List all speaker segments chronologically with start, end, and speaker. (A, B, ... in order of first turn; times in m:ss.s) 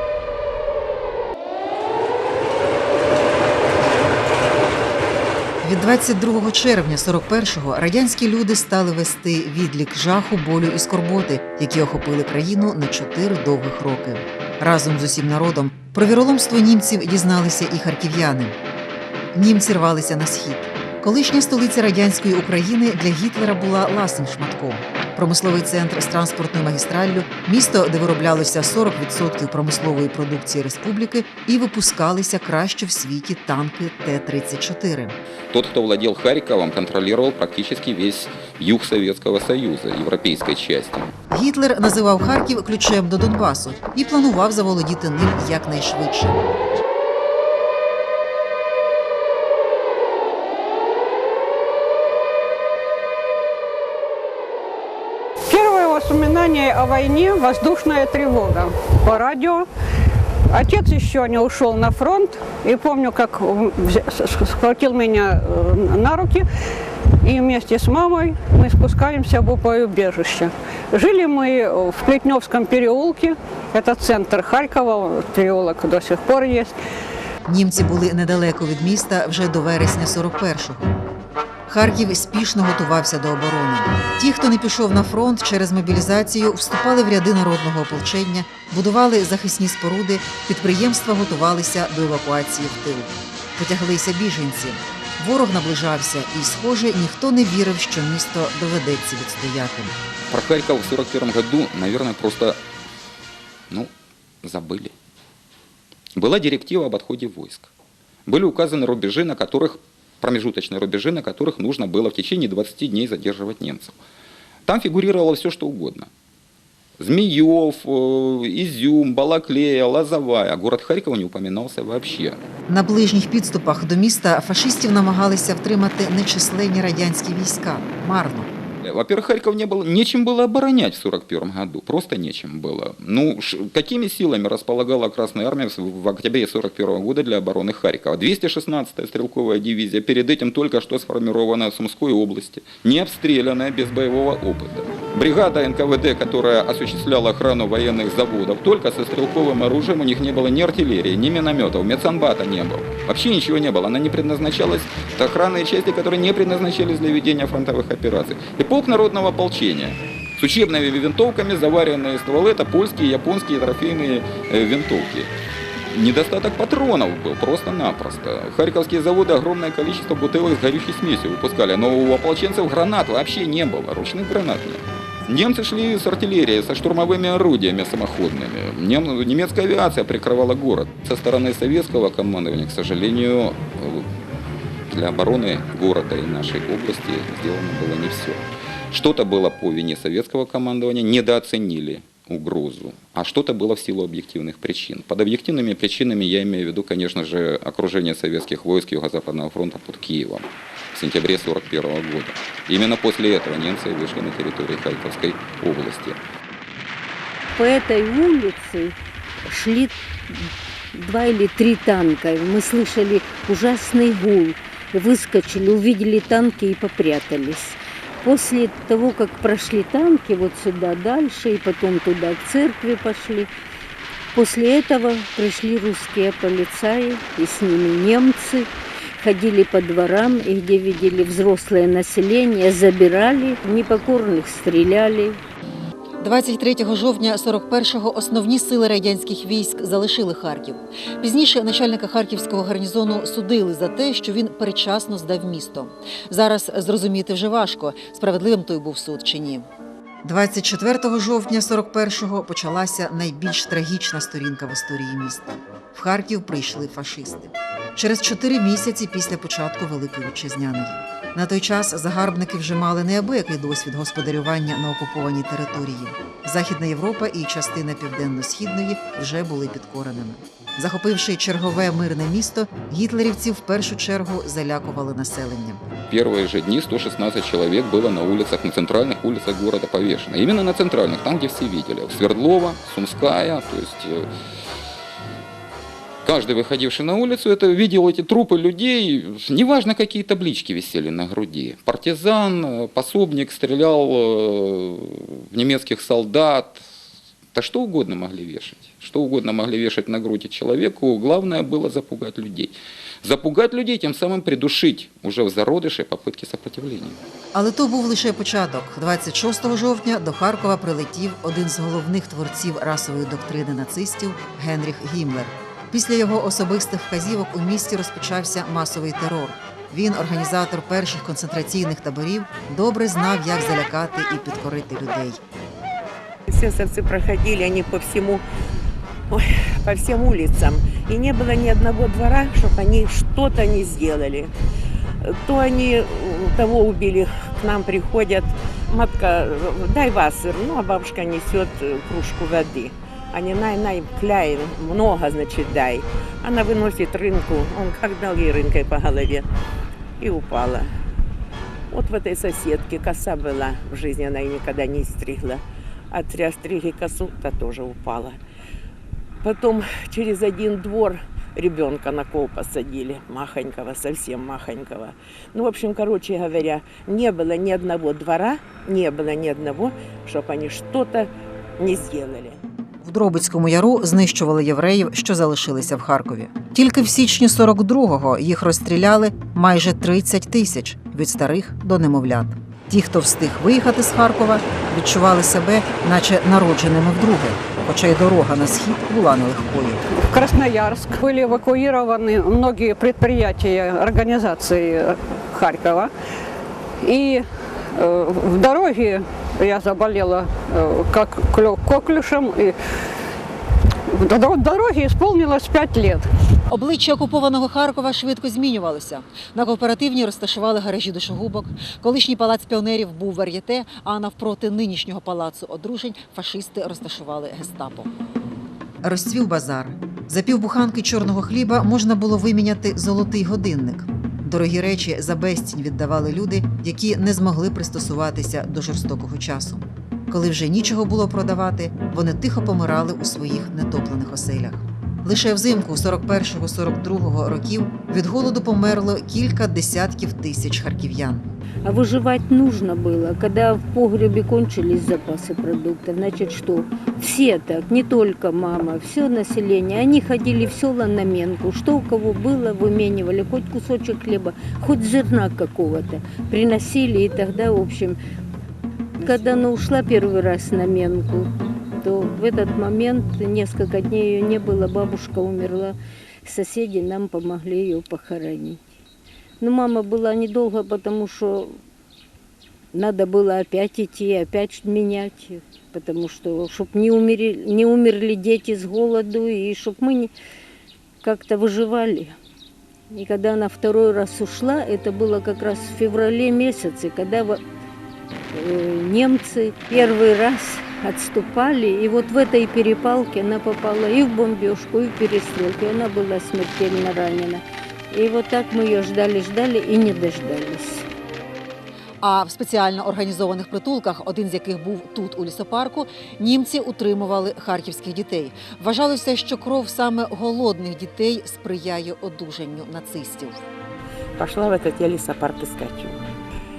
0:05.6-0:18.6 A
0:19.3-0:35.1 A
0:35.5-0:41.1 B
0:41.3-0:46.4 A
0:55.5-0:59.7 C
1:00.5-1:06.4 C
1:07.2-1:16.7 C
1:17.5-1:20.9 A
1:21.7-1:39.9 A
1:40.3-1:42.6 B
1:44.4-1:44.9 B
1:46.2-1:47.7 B
1:48.3-1:53.9 B
1:54.6-1:56.1 B
1:57.0-2:02.4 B
2:02.7-2:08.5 A
2:08.8-2:45.3 B
2:45.9-3:04.0 B
3:04.9-3:26.2 B
3:27.5-3:43.5 D
3:44.3-3:48.7 D
3:49.2-3:55.4 D
3:56.2-4:09.7 A
4:10.2-4:35.8 A
4:36.1-4:44.2 B
4:46.2-4:56.8 B
4:57.5-5:07.2 B
5:07.5-5:25.4 A
5:26.5-5:28.4 E
5:29.3-5:34.5 E
5:35.2-5:49.5 E
5:50.2-5:50.9 E
5:51.9-5:58.4 E
5:59.4-6:12.6 E
6:13.0-6:30.0 A
6:30.1-6:36.1 C
6:37.0-6:42.7 C
6:44.1-6:46.3 C
6:46.7-6:58.1 A
6:59.0-7:21.4 A
7:21.8-7:38.2 D
7:39.2-7:48.8 D
7:49.6-7:51.8 D
7:52.9-8:00.3 D
8:01.2-8:02.4 D
8:03.1-8:07.6 D
8:08.5-8:21.0 D
8:22.2-8:33.6 A
8:34.4-8:36.2 E